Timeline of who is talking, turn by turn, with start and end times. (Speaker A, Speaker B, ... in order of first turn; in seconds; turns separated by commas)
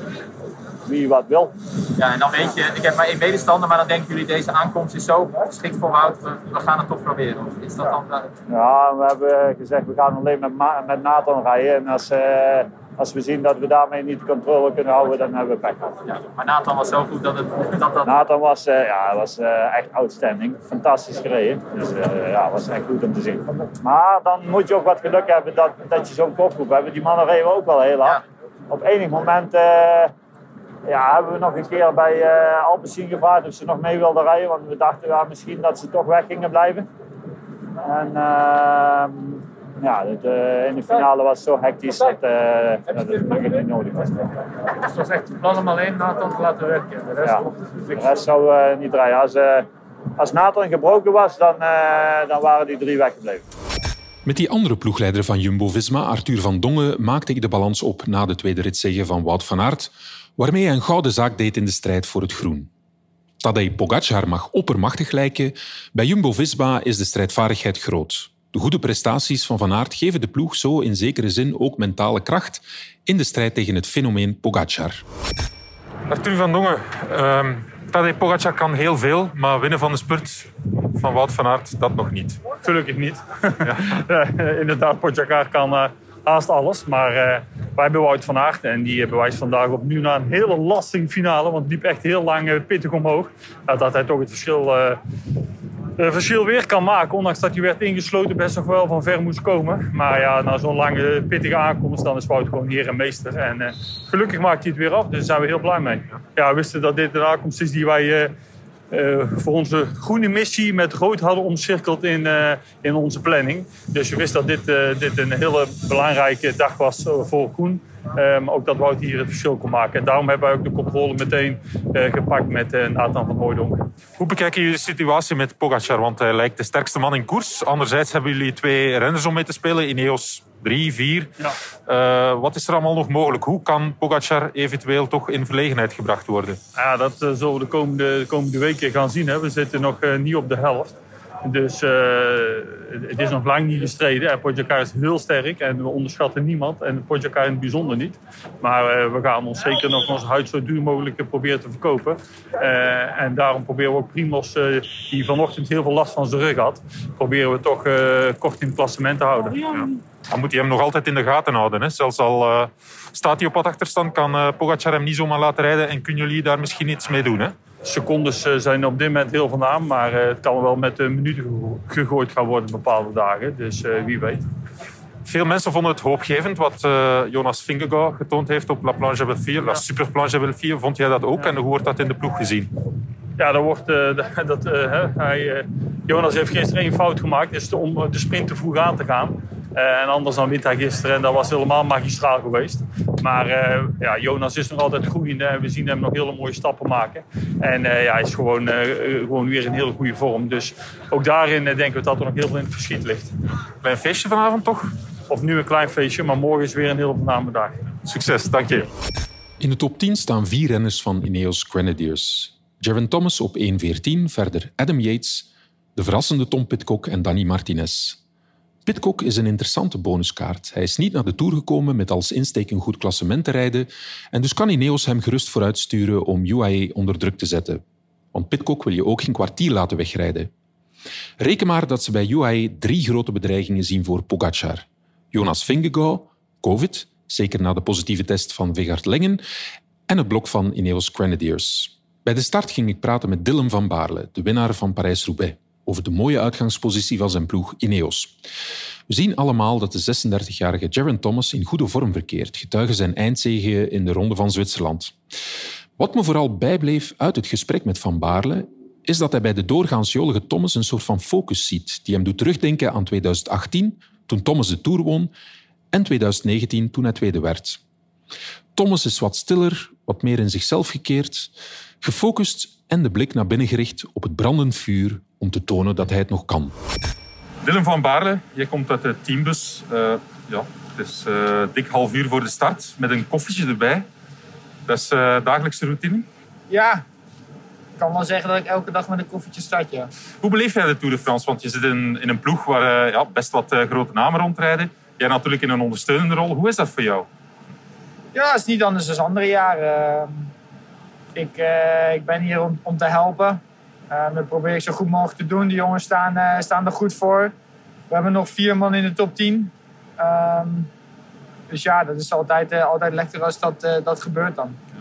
Speaker A: 0.9-1.6, Speaker B: 1.9-8.3, Speaker A: 8.5-15.9, Speaker B: 16.0-18.2, Speaker A: 18.0-30.1, Speaker A: 30.9-36.9, Speaker A: 37.8-44.3, Speaker A: 45.7-49.6, Speaker A: 50.2-53.4, Speaker C: 54.2-62.7, Speaker C: 63.4-75.0, Speaker D: 76.1-82.4, Speaker E: 82.6-95.0, Speaker E: 96.0-108.3, Speaker E: 108.9-123.9, Speaker D: 124.2-131.3, Speaker D: 131.9-136.6, Speaker E: 136.8-159.8, Speaker D: 159.7-167.5, Speaker E: 167.8-174.4, Speaker D: 175.2-182.7, Speaker E: 183.4-203.3, Speaker D: 203.8-204.9, Speaker E: 205.3-207.8, Speaker D: 208.1-208.9, Speaker C: 209.6-218.2, Speaker C: 218.8-227.8, Speaker C: 228.3-230.5, Speaker C: 231.4-239.4, Speaker C: 240.1-248.3, Speaker C: 249.1-255.1, Speaker C: 256.0-265.3, Speaker C: 265.9-267.8, Speaker C: 268.7-276.8, Speaker D: 277.6-284.0, Speaker D: 284.9-286.2, Speaker F: 286.7-287.0, Speaker F: 288.0-290.1, Speaker D: 290.4-297.2, Speaker F: 298.3-300.5, Speaker F: 301.3-303.6, Speaker F: 304.1-307.5, Speaker F: 308.1-310.9, Speaker F: 311.7-314.8